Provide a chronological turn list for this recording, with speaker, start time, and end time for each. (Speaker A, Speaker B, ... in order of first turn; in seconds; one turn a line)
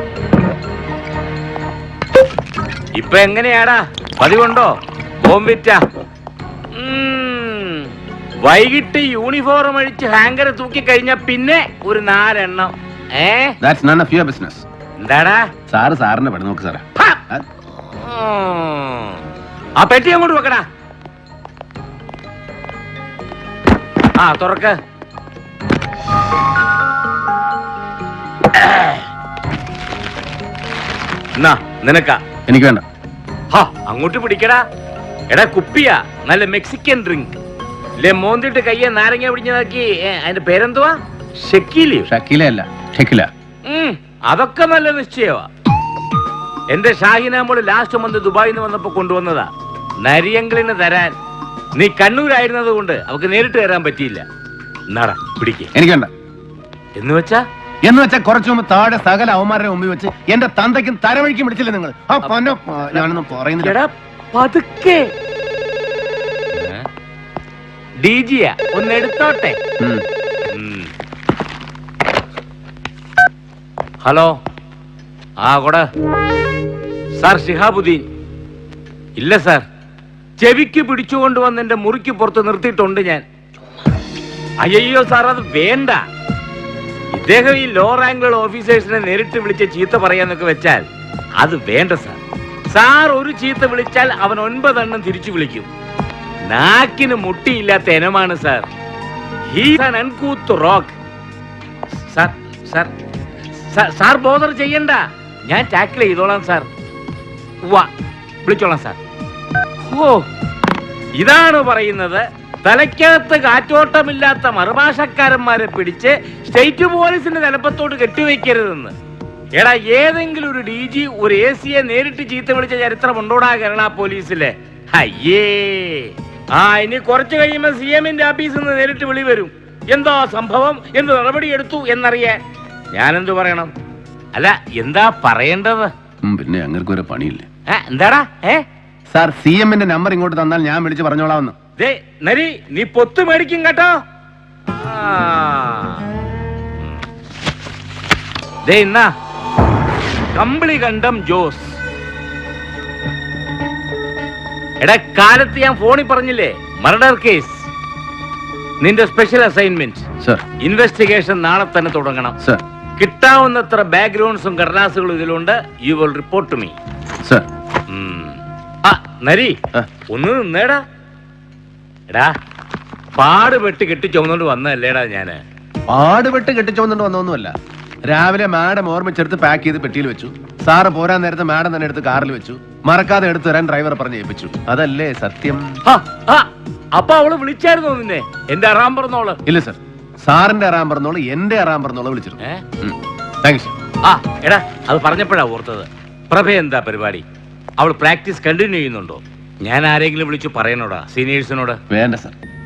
Speaker A: 3.0-5.8
Speaker A: 6.7-7.9
Speaker A: 8.4-13.6
Speaker B: 13.6-14.6
Speaker A: 15.0-15.5
Speaker B: 15.7-17.4
Speaker A: 16.9-17.2
Speaker A: 17.7-19.2
Speaker A: 19.8-20.6
Speaker A: 24.1-24.8
Speaker A: 28.5-29.0
Speaker A: 31.4-32.2
Speaker B: 32.5-32.8
Speaker A: 33.5-34.6
Speaker A: 35.3-37.4
Speaker A: 38.0-42.1
Speaker B: 42.1-43.3
Speaker A: 43.6-45.5
Speaker A: 46.7-49.5
Speaker A: 50.0-51.1
Speaker A: 51.7-54.2
Speaker A: 54.9-55.7
Speaker B: 55.7-56.1
Speaker A: 57.0-57.4
Speaker B: 57.8-63.8
Speaker A: 62.9-65.1
Speaker A: 66.5-66.8
Speaker A: 68.0-69.6
Speaker B: 69.8-70.0
Speaker A: 70.5-70.9
Speaker A: 74.0-74.3
Speaker A: 75.4-75.8
Speaker A: 77.2-78.0
Speaker A: 79.2-79.6
Speaker A: 80.4-83.2
Speaker A: 84.6-86.0
Speaker A: 87.1-90.8
Speaker A: 91.4-92.2
Speaker A: 92.7-95.7
Speaker A: 96.5-98.7
Speaker A: 99.5-101.0
Speaker A: 102.0-102.9
Speaker A: 103.6-106.7
Speaker A: 107.6-107.9
Speaker A: 108.4-109.0
Speaker A: 109.8-110.2
Speaker A: 111.2-118.9
Speaker A: 119.5-132.4
Speaker A: 132.9-133.7
Speaker A: 134.3-135.9
Speaker B: 136.2-137.5
Speaker A: 137.7-138.6
Speaker B: 139.1-141.6
Speaker A: 141.8-144.0
Speaker A: 144.7-146.1
Speaker A: 148.6-149.1
Speaker A: 150.3-151.8
Speaker A: 154.8-157.7
Speaker A: 158.8-160.1
Speaker A: 160.6-162.4
Speaker A: 163.0-166.8
Speaker A: 167.9-169.6
Speaker A: 170.1-170.8
Speaker A: 172.1-172.3
Speaker A: 173.2-175.4
Speaker B: 175.9-177.5
Speaker B: 178.1-185.8
Speaker A: 185.8-189.4
Speaker B: 189.4-193.7
Speaker A: 194.0-197.2
Speaker A: 197.8-201.8
Speaker B: 201.9-202.3